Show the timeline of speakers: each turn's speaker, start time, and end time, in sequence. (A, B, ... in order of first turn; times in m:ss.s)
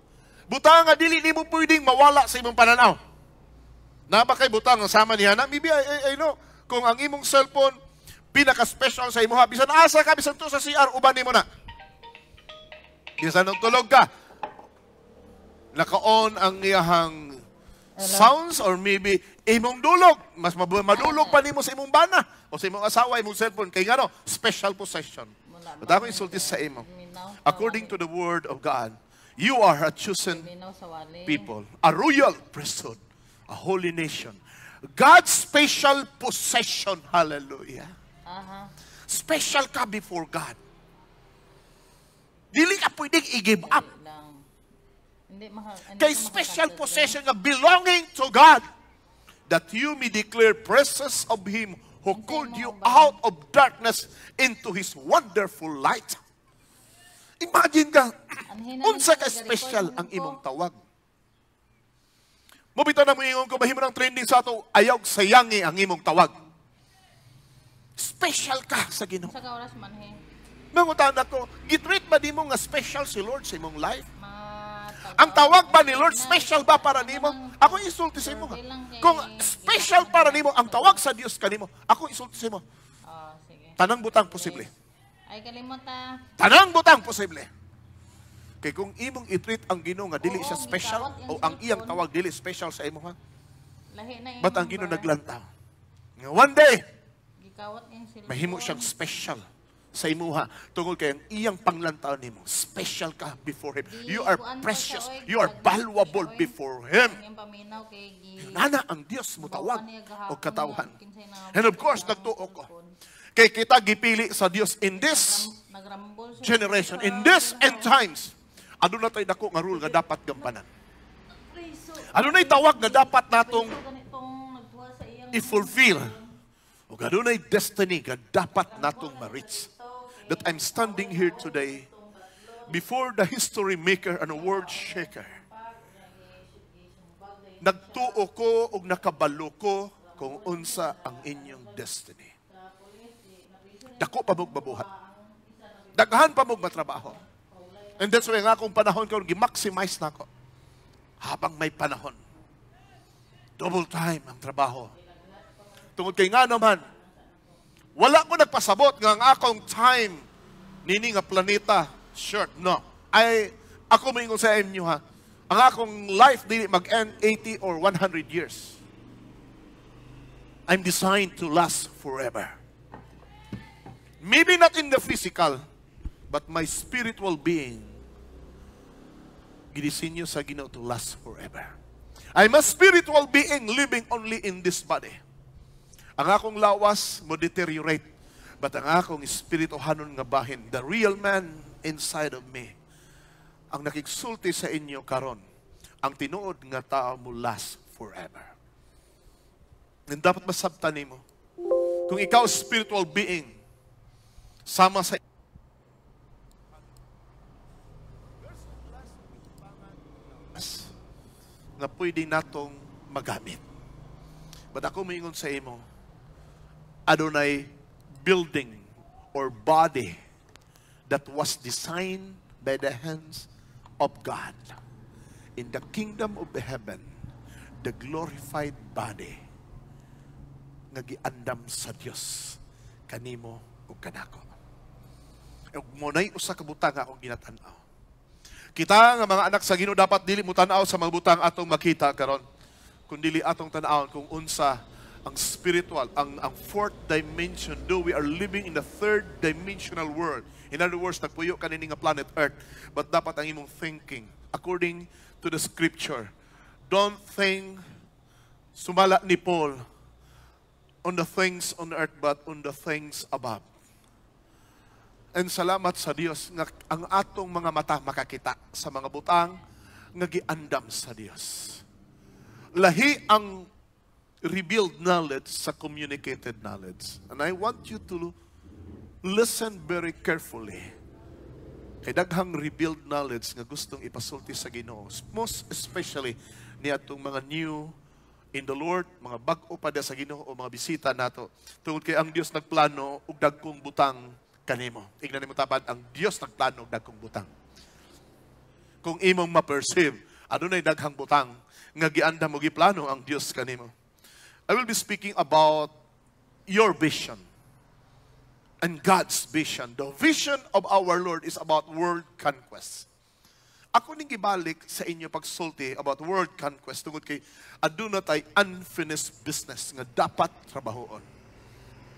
0:00.5-0:03.0 A
0:04.1-0:07.8 A
0:08.3-0:11.4 A
0:13.2-0:14.1 A
0:15.7-0:17.4 A
0:18.0-0:18.3 B
0:18.0-0:26.8 A
0:20.9-0:21.4 B
0:25.5-0:28.0 B
0:27.4-0:30.5 A
0:30.2-0:31.5 B
0:31.3-0:34.4 A
0:34.9-0:37.9 A
0:38.3-0:38.7 B
0:39.1-0:40.6 A
0:42.5-0:43.8 A
0:43.6-0:44.4 B
0:45.3-0:47.2 B
0:46.0-0:48.6 A
0:49.5-0:56.2 A
0:52.1-0:53.2 B
0:57.4-1:00.8 A
0:58.5-1:00.4 B
1:02.8-1:06.4 A
1:08.0-1:09.4 A
1:09.2-1:10.2 B
1:10.7-1:14.1 A
1:14.2-1:21.0 B
1:15.2-1:22.6 A
1:23.1-1:24.7 B
1:23.8-1:24.7 A
1:25.3-1:26.1 B
1:26.4-1:27.5 A
1:28.6-1:33.2 A
1:30.2-1:32.0 B
1:33.9-1:35.1 B
1:34.4-1:35.5 A
1:36.2-1:36.8 A
1:37.4-1:38.9 B
1:38.3-1:39.4 A
1:40.0-1:47.2 A
1:43.9-1:48.6 B
1:48.4-1:50.9 A
1:49.4-1:52.9 B
1:51.5-1:52.7 A
1:53.4-1:55.5 A
1:54.8-1:58.0 B
1:56.4-2:00.7 A
1:59.7-2:00.5 B
2:01.5-2:06.4 B
2:02.1-2:03.8 A
2:05.3-2:06.2 A
2:06.9-2:09.7 A
2:08.7-2:12.9 B
2:10.3-2:11.9 A
2:12.7-2:15.4 A
2:14.0-2:19.0 B
2:17.6-2:22.3 A
2:20.1-2:21.8 B
2:22.5-2:28.6 B
2:24.0-2:24.9 A
2:26.0-2:27.2 A
2:28.0-2:30.3 A
2:31.2-2:32.2 A
2:33.6-2:34.9 A
2:35.0-2:37.6 B
2:36.0-2:36.8 A
2:38.0-2:40.3 A
2:40.8-2:48.8 A
2:50.7-2:52.6 A
2:54.2-2:55.6 A
2:56.3-2:58.0 A
2:59.7-3:01.8 A
3:02.4-3:05.2 A
3:06.2-3:08.0 A
3:08.6-3:12.7 A
3:13.7-3:15.4 A
3:16.0-3:18.5 A
3:20.1-3:21.2 A
3:22.1-3:23.6 A
3:24.7-3:25.2 A
3:28.7-3:29.4 A
3:30.5-3:30.9 A
3:31.8-3:33.6 A
3:34.7-3:35.8 A
3:37.1-3:40.2 A
3:41.1-3:43.5 A
3:44.0-3:44.8 A
3:45.6-3:47.1 A
3:47.8-3:49.4 A
3:50.9-3:52.6 A
3:53.1-3:54.5 A
3:55.8-3:57.8 A
3:58.8-4:02.4 A
4:03.1-4:04.8 A
4:05.3-4:16.3 A
4:16.9-4:17.8 A
4:18.8-4:19.8 A
4:21.0-4:23.7 A
4:25.4-4:29.6 A
4:30.2-4:31.8 A
4:32.8-4:33.7 A
4:34.4-4:38.3 A
4:39.2-4:40.9 A
4:42.0-4:47.9 A
4:48.5-4:57.5 A
4:59.0-5:03.9 A
5:04.7-5:05.9 A
5:06.7-5:07.4 A
5:08.8-5:13.1 A
5:14.0-5:21.3 A